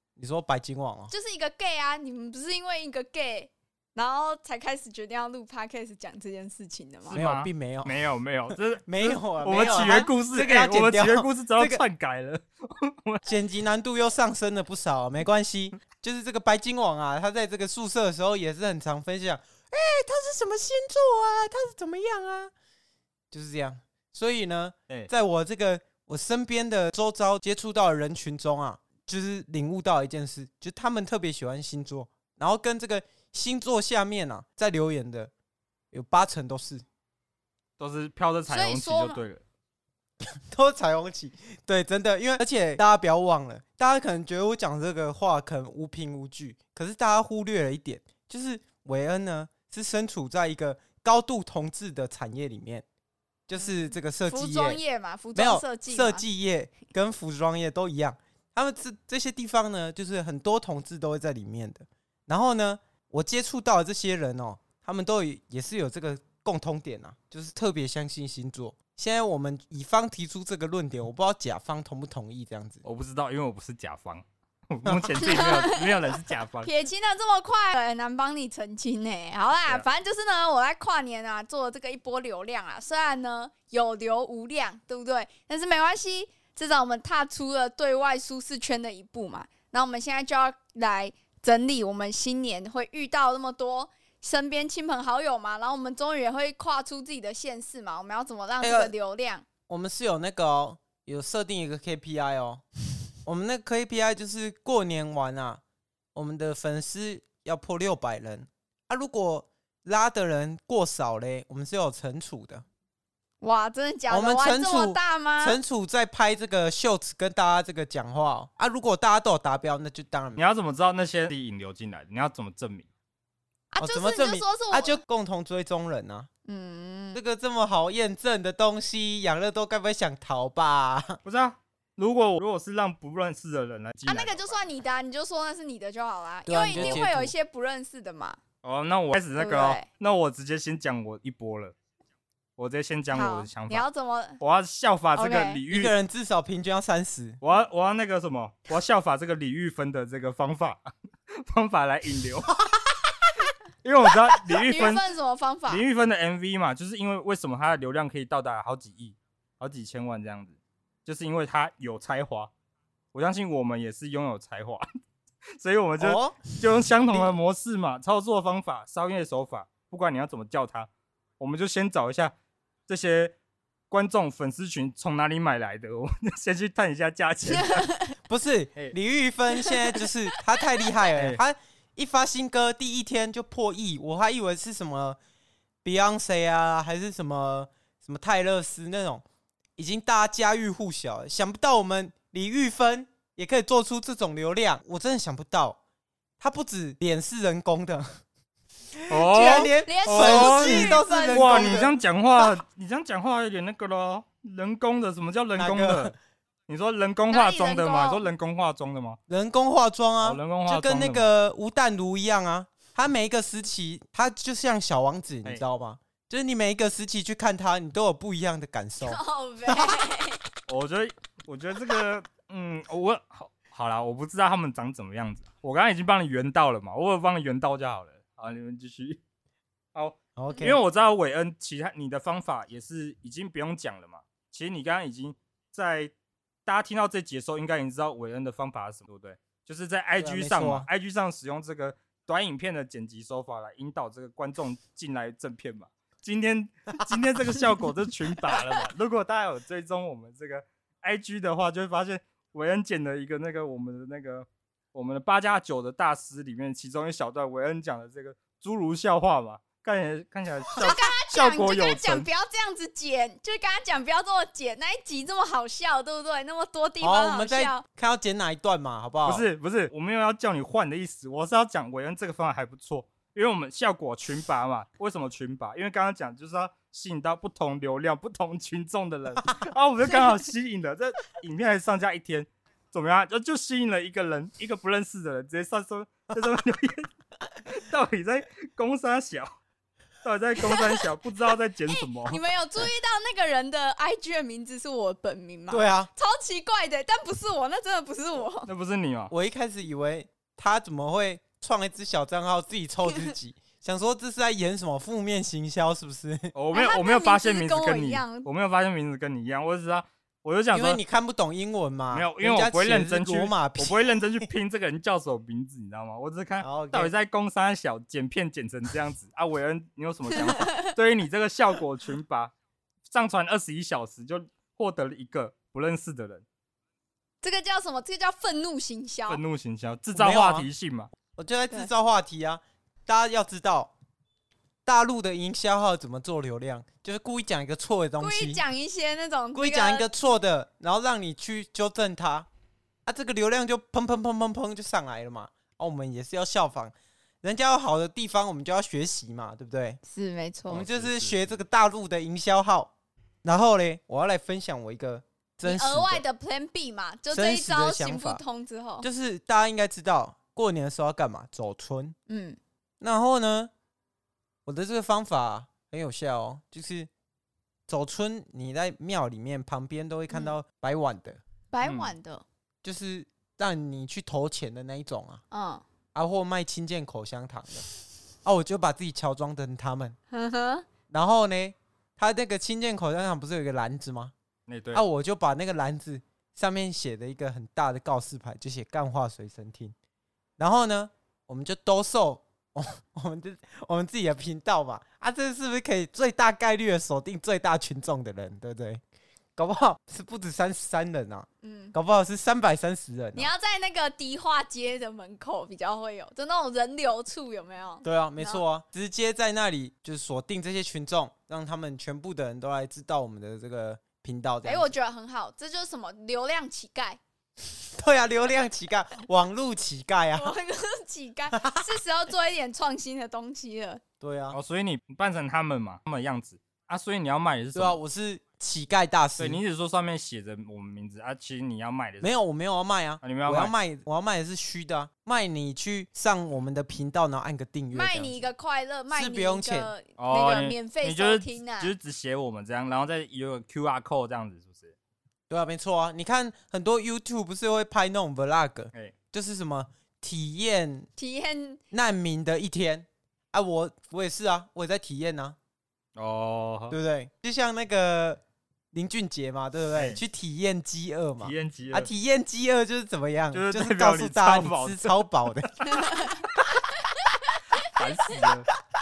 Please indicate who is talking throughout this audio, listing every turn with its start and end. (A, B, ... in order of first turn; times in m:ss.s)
0:00.2-0:01.1 A
0:01.1-0:07.2 B
0:07.1-0:13.3 C
0:07.1-0:08.0 A
0:08.5-0:11.8 A
0:09.5-0:10.1 B
0:13.2-0:22.5 A
0:23.3-0:35.3 A
0:35.9-0:36.8 A
0:37.8-0:39.4 C
0:38.5-0:39.2 B
0:40.2-0:52.8 A
0:53.5-0:54.8 A
0:53.6-0:56.2 B
0:55.4-1:12.8 A
1:12.8-1:16.7 C
1:14.9-1:15.1 A
1:15.2-1:39.4 B
1:38.6-1:38.9 A
1:39.7-1:42.6 A
1:43.2-1:45.6 A
1:46.2-1:52.6 A
1:53.4-1:55.6 B
1:54.1-2:00.4 A
2:00.4-2:02.9 C
2:03.7-2:05.0 B
2:03.8-2:06.3 A
2:06.5-2:07.2 B
2:07.1-2:11.2 A
2:11.2-2:14.6 C
2:14.1-2:18.4 B
2:16.5-2:17.3 A
2:16.7-2:17.1 C
2:18.6-2:21.8 C
2:19.4-2:19.9 B
2:22.6-2:23.8 C
2:23.1-2:24.4 B
2:24.4-2:25.9 C
2:25.2-2:25.6 B
2:25.7-2:27.4 A
2:27.4-2:32.5 C
2:33.8-2:35.0 C
2:34.4-2:35.8 B
2:35.7-2:42.5 C
2:43.1-2:44.8 C
2:45.6-2:52.3 C
2:46.0-2:46.6 A
2:52.9-2:53.4 C
2:53.9-2:57.9 C
2:57.5-2:58.1 B
2:58.3-3:05.2 A
2:59.6-3:00.0 B
3:01.1-3:01.4 C
3:05.8-3:09.2 A
3:09.8-3:15.8 A
3:16.4-3:18.2 A
3:19.0-3:21.9 A
3:19.1-3:26.1 C
3:19.4-3:21.9 B
3:25.6-3:26.2 A
3:26.7-3:29.2 C
3:27.3-3:28.3 B
3:29.3-3:40.0 A
3:30.2-3:31.3 C
3:39.0-3:40.4 B
3:40.7-3:49.2 C
3:49.9-3:56.1 C
3:50.4-3:50.8 A
3:56.7-4:22.3 C
4:00.2-4:00.9 A
4:20.8-4:27.8 B
4:27.0-4:29.4 A
4:29.2-4:47.1 C
4:47.7-4:49.5 C
4:50.2-4:52.4 C
4:50.6-4:51.0 B
4:51.9-4:58.7 B
4:55.7-4:56.1 A
4:58.7-4:59.3 C
4:59.3-5:06.5 A
5:06.6-5:11.0 C
5:06.7-5:08.5 B
5:10.7-5:14.4 A
5:12.1-5:22.5 C
5:16.6-5:17.1 A
5:20.4-5:20.9 B
5:23.1-5:26.4 C
5:27.4-5:29.4 B
5:29.3-5:31.1 C
5:30.2-5:30.7 A
5:31.4-5:33.9 A
5:34.8-5:38.6 A
5:38.2-5:40.1 B
5:39.6-5:42.5 A
5:43.1-5:50.0 A
5:50.0-5:50.8 B
5:50.7-5:52.9 A
5:50.7-5:51.6 C
5:53.4-5:56.2 A
5:55.6-5:59.1 B
5:57.3-5:58.4 A
5:59.0-6:02.2 A
6:02.3-6:02.6 B
6:03.0-6:03.7 A
6:04.7-6:07.1 A
6:07.9-6:11.4 A
6:10.3-6:10.6 B
6:11.7-6:12.4 B
6:11.8-6:12.2 C
6:12.8-6:15.4 A
6:15.5-6:15.8 B
6:16.1-6:17.9 A
6:18.4-6:20.2 A
6:20.3-6:20.9 B
6:21.1-6:24.3 A
6:24.7-6:25.0 C
6:24.9-6:29.9 A
6:30.6-6:39.0 A
6:39.6-6:43.5 A
6:41.6-6:42.0 B
6:43.4-6:48.6 B
6:48.0-6:54.9 A
6:54.6-6:57.2 B
6:58.0-7:00.6 A
7:00.4-7:04.0 B
7:01.5-7:01.9 A
7:04.2-7:04.6 A
7:04.5-7:08.0 C
7:07.8-7:09.6 A
7:09.4-7:12.3 C
7:12.2-7:18.4 A
7:13.2-7:13.7 C
7:17.9-7:21.9 B
7:19.1-7:19.9 A
7:20.2-7:25.0 C
7:25.5-7:31.1 A
7:31.2-7:31.8 B
7:31.9-7:35.6 A
7:36.2-7:37.0 C
7:36.9-7:38.4 A
7:38.9-7:45.8 A
7:39.9-7:40.2 C
7:41.4-7:42.1 C
7:43.5-7:46.0 C
7:45.9-7:46.5 B
7:47.0-7:48.4 B
7:47.8-7:48.7 C